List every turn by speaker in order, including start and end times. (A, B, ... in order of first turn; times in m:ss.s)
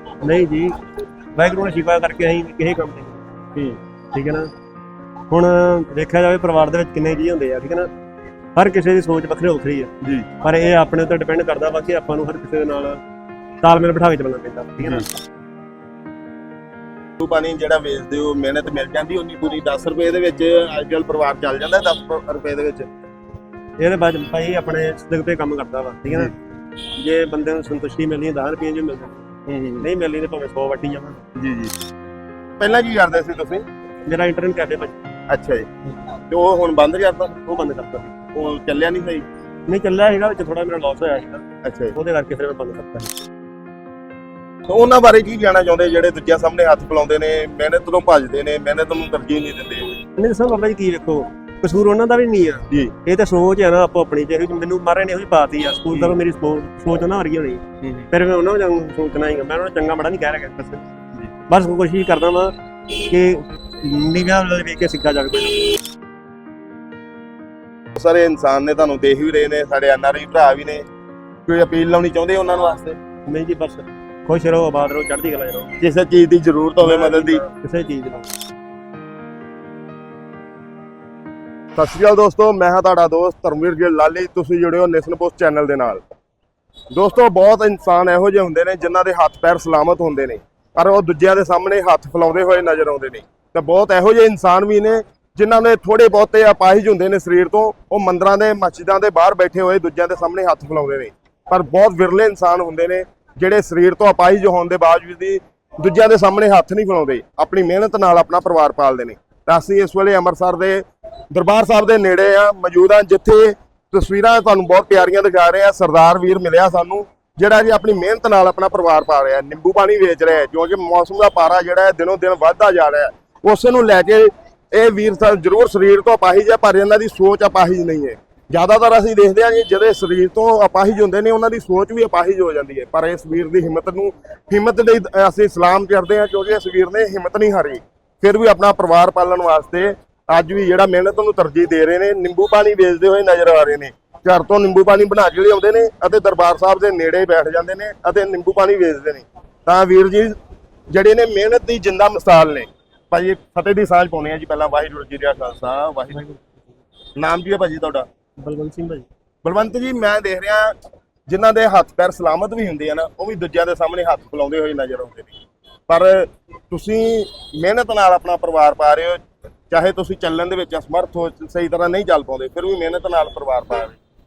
0:00.2-0:00.8 A
0:01.3-0:03.2 A
0:04.1-0:04.5 A
0:05.3-0:07.9 A
0:08.5-0:13.0 A
0:10.0-0:10.3 B
0:13.6-0:15.2 A
0:17.2-0:22.9 B
0:23.8-0:26.3 A
0:27.0-0:31.2 A
0:29.5-0:29.8 B
0:31.4-0:31.7 B
0:32.6-0:33.6 B
0:34.0-0:35.0 A
0:35.3-0:35.7 B
0:36.3-0:37.4 B
0:37.4-0:38.1 A
0:38.3-0:39.2 B
0:39.7-0:41.4 A
0:41.6-0:41.9 B
0:41.9-0:43.2 A
0:44.7-0:50.0 B
0:50.2-1:00.8 A
0:52.7-0:52.9 B
0:57.8-0:58.1 B
1:01.5-1:05.8 A
1:07.9-1:10.9 B
1:11.4-1:13.0 B
1:13.2-1:15.8 A
1:15.8-1:17.4 B
1:16.8-1:18.3 A
1:21.8-1:26.0 B
1:26.9-2:30.4 B
2:30.9-2:36.2 B
2:36.1-2:36.6 A
2:37.2-2:38.1 B
2:38.4-2:39.0 A
2:39.4-2:40.7 B
2:41.3-2:54.0 B